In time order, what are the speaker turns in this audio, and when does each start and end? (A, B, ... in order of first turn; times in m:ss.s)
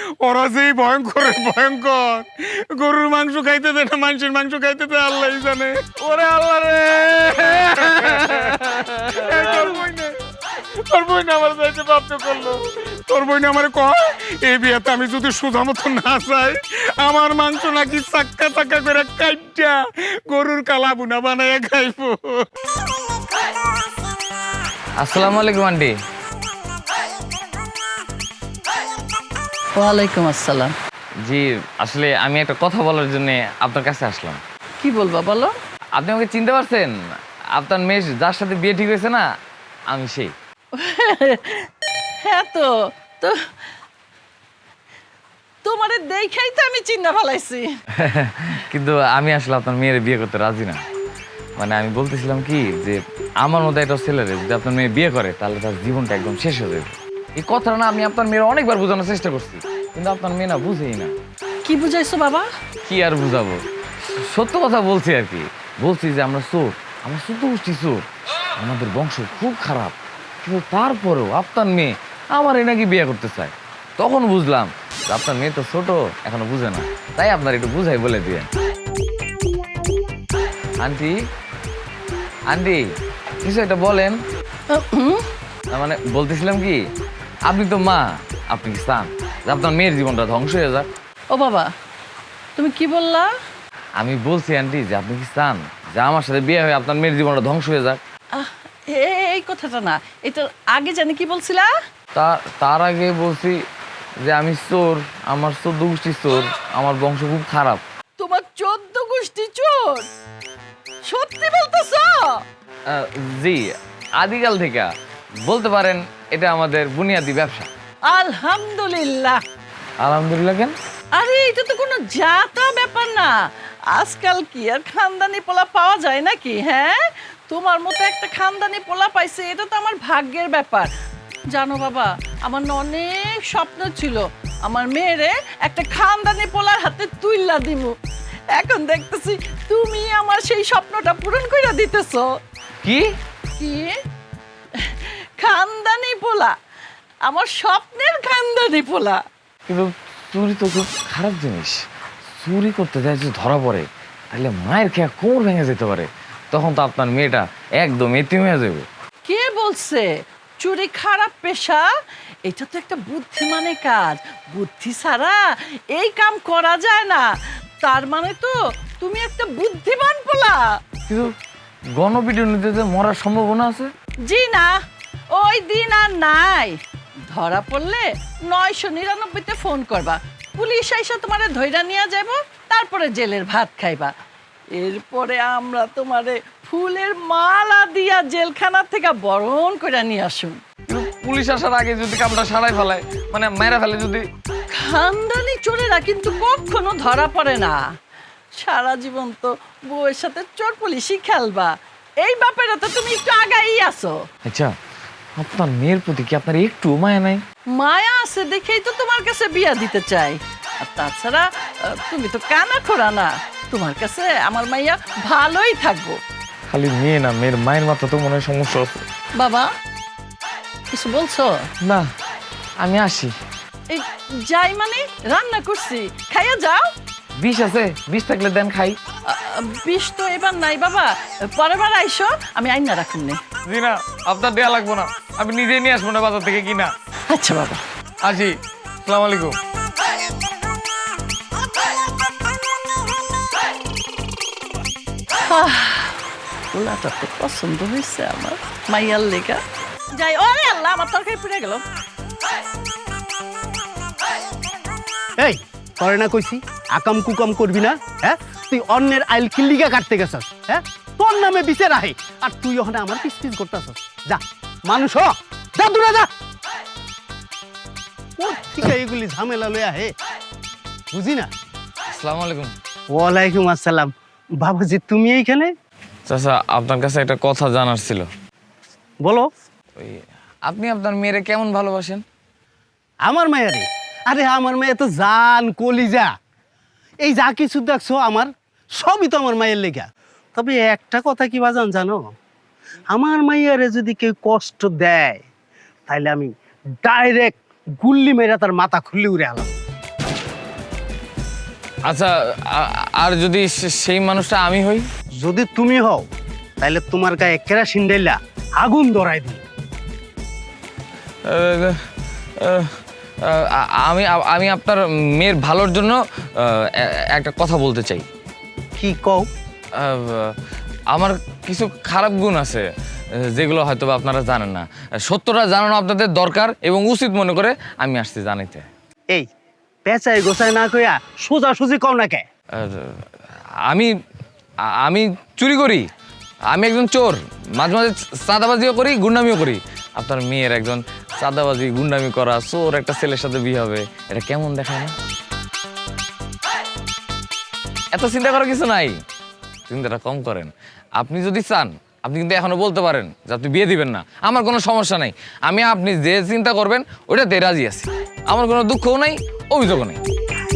0:00.2-0:06.0 A
0:06.0-0:09.8 B
0:07.7-0:08.1 A
0:09.1-0:10.1 A
0:10.8-0:19.8 A
0:20.3-0:22.4 A
0:25.0-0:25.9 B
0:29.8-0:30.7 C
0:31.2-0:34.4 B
0:34.8-0:35.5 C
0:36.0-0:36.9 B
0:37.6-0:39.2 B
0:39.9-0:40.3 B
0:40.7-0:41.7 C
0:42.2-0:43.4 C
0:45.6-0:47.7 C
0:48.0-0:50.8 B
0:51.6-1:01.1 B
1:01.6-1:02.5 C
1:02.9-1:03.6 B
1:04.2-1:08.0 B
1:08.6-1:18.5 B
1:20.8-1:21.1 B
1:22.5-1:22.8 B
1:23.4-1:24.2 B
1:24.7-1:25.2 C
1:25.7-1:26.8 B
1:27.5-1:30.9 B
1:31.3-1:31.7 C
1:32.6-1:33.3 C
1:34.0-1:38.0 B
1:38.3-1:41.7 C
1:42.2-1:43.6 B
1:44.2-1:47.8 B
1:48.2-1:50.1 C
1:51.0-1:52.4 C
1:52.9-1:53.6 B
1:54.2-1:54.9 B
1:55.4-1:57.7 B
1:58.1-1:59.4 C
2:00.0-2:00.8 B
2:01.1-2:03.4 C
2:03.9-2:10.9 C
2:11.5-2:18.0 C
2:18.5-2:22.3 C
2:22.8-2:23.1 B
2:23.6-2:23.9 C
2:24.8-2:26.5 C
2:27.2-2:29.2 C
2:29.7-2:31.8 B
2:32.4-2:38.9 B
2:39.3-2:40.1 C
2:40.6-2:41.9 C
2:42.4-2:50.8 C
2:51.1-2:51.3 B
2:52.0-2:53.9 B
2:54.2-2:54.8 C
2:55.3-2:56.8 C
2:57.3-3:04.1 C
3:04.8-3:10.6 C
3:10.9-3:14.2 B
3:14.7-3:17.8 C
3:18.6-3:24.2 C
3:24.5-3:24.7 B
3:25.4-3:27.4 B
3:27.7-3:36.2 C
3:36.7-3:39.0 B
3:39.4-3:39.7 C
3:40.9-3:41.6 C
3:42.8-3:43.3 B
3:43.9-3:46.9 C
3:47.4-3:49.0 B
3:49.3-3:53.4 C
3:53.6-3:56.9 B
3:57.3-3:57.8 C
3:58.2-3:58.5 B
3:59.0-3:59.6 B
4:05.5-4:06.2 C
4:06.7-4:09.6 C
4:10.2-4:11.8 C
4:15.4-4:26.3 D
4:28.4-4:30.1 D
4:31.1-4:31.5 D
4:32.1-4:32.7 B
4:33.1-4:35.7 D
4:36.3-4:38.3 B
4:40.0-4:42.2 B
4:43.3-4:46.3 D
4:47.2-4:52.3 D
4:53.1-4:55.4 D
4:56.1-4:56.5 D
4:57.0-4:59.7 D
5:02.1-5:05.0 B
5:05.4-5:06.2 D
5:06.8-5:09.6 D
5:11.5-5:11.9 B
5:12.6-5:12.9 B
5:13.4-5:18.2 B
5:19.0-5:19.5 D
5:20.0-5:20.5 B
5:21.1-5:22.9 B
5:23.5-5:28.8 B
5:30.1-5:32.4 D
5:32.8-5:33.1 B
5:34.9-5:36.0 B
5:36.7-5:45.1 B
5:48.1-5:49.2 B
5:49.9-6:00.2 B